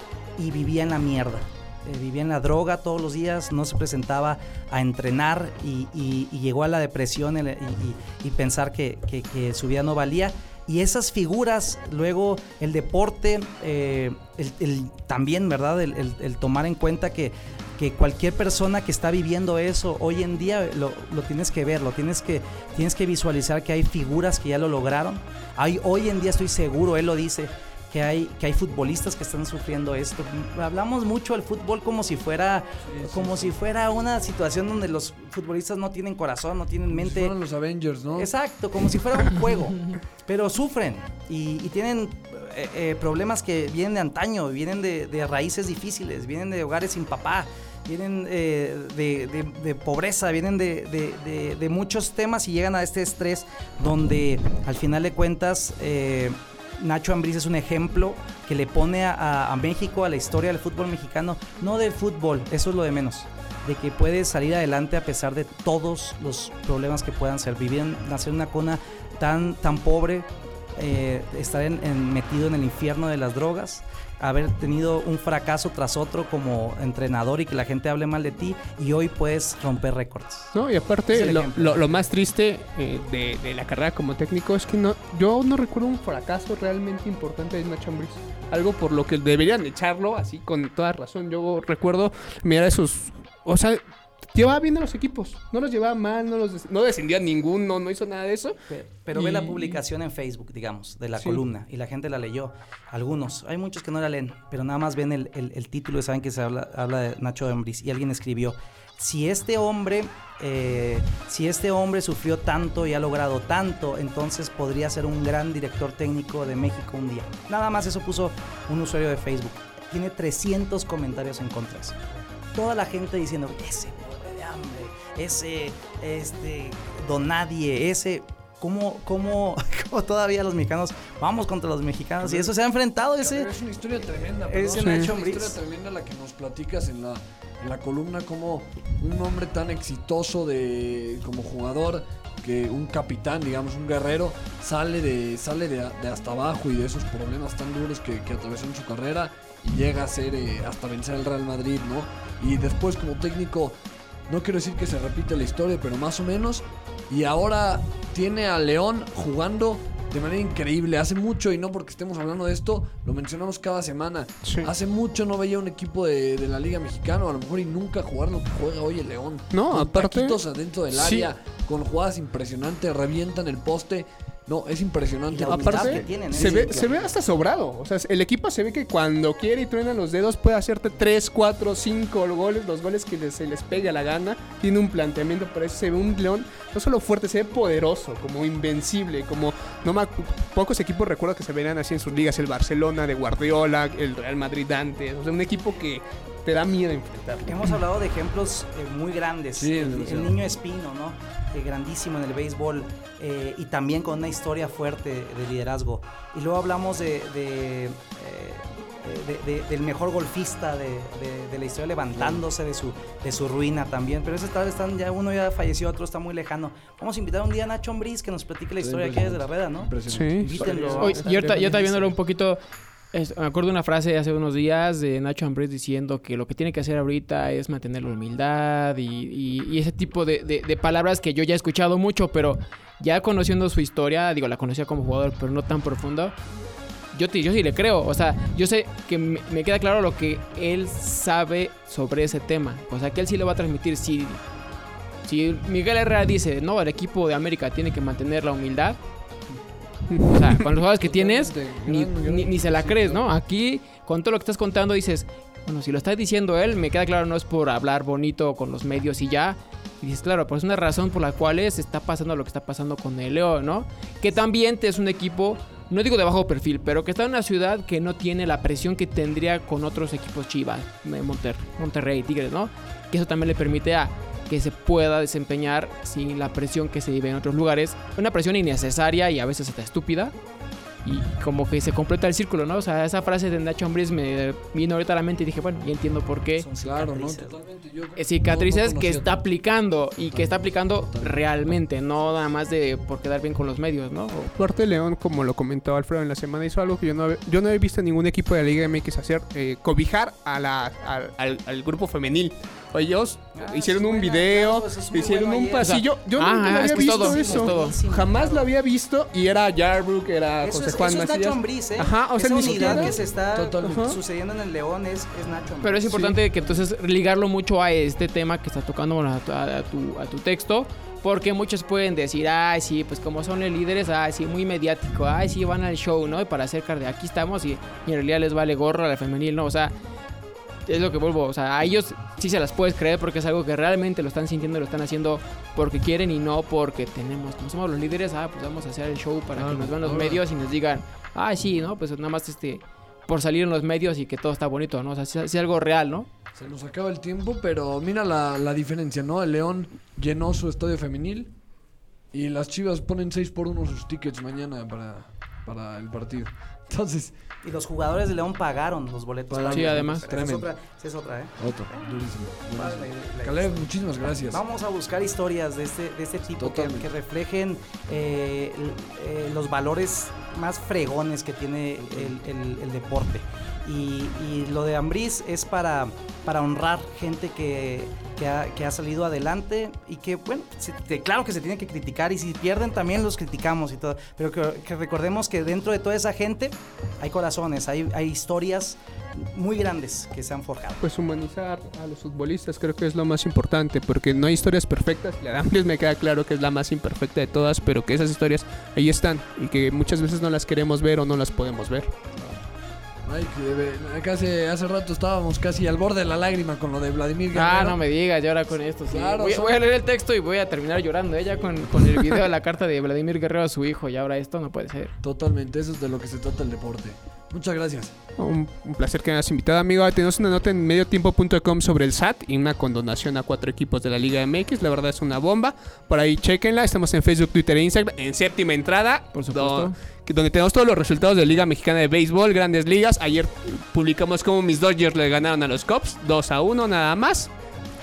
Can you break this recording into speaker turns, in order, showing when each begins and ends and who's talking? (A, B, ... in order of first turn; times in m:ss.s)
0:00.4-0:37.4 A
0:32.9-0:33.6 B
0:36.9-0:38.3 B
0:38.1-1:20.6 A
1:20.5-1:33.8 C
1:21.1-1:22.0 A
1:34.3-1:38.6 C
1:38.7-2:02.0 A
1:39.2-1:39.8 B
1:41.2-1:41.4 C
2:02.5-2:15.6 A
2:12.2-2:12.5 B
2:13.2-2:33.8 B
2:14.7-2:15.1 C
2:34.3-2:56.8 B
2:44.4-2:44.7 C
2:49.5-2:50.4 C
2:50.9-2:51.3 C
2:55.3-2:57.1 A
2:55.4-3:17.6 C
3:17.5-3:42.1 A
3:19.6-3:20.4 B
3:32.1-3:32.4 B
3:38.8-3:42.0 B
3:40.1-3:40.8 C
3:41.0-3:42.6 D
3:43.1-3:56.4 D
3:57.1-4:04.4 D
4:05.2-4:09.0 D
4:10.1-4:10.6 C
4:10.3-4:40.4 D
4:10.9-4:13.2 B
4:41.0-4:46.7 D
4:46.6-4:47.6 A
4:46.8-4:49.4 B
4:48.2-4:54.5 D
4:50.3-4:51.4 B
4:54.6-5:13.2 C
5:03.6-5:05.9 A
5:05.8-5:08.0 D
5:06.6-5:08.7 A
5:10.6-5:16.4 A
5:12.6-5:14.2 B
5:13.8-5:14.2 C
5:15.8-5:29.9 D
5:30.9-5:46.3 D
5:39.6-5:40.4 B
5:46.6-5:51.5 B
5:52.3-5:57.4 B
5:57.6-6:31.0 A
5:59.5-6:00.7 B
5:59.6-6:00.2 D
6:01.6-6:04.6 B
6:06.6-6:07.1 B
6:12.0-6:12.4 B
6:31.0-6:42.2 C
6:43.2-6:48.0 B
6:47.5-6:55.1 D
6:49.1-6:49.8 B
6:51.5-6:52.1 B
6:55.2-6:58.1 B
6:58.4-7:17.5 C
7:09.3-7:10.0 D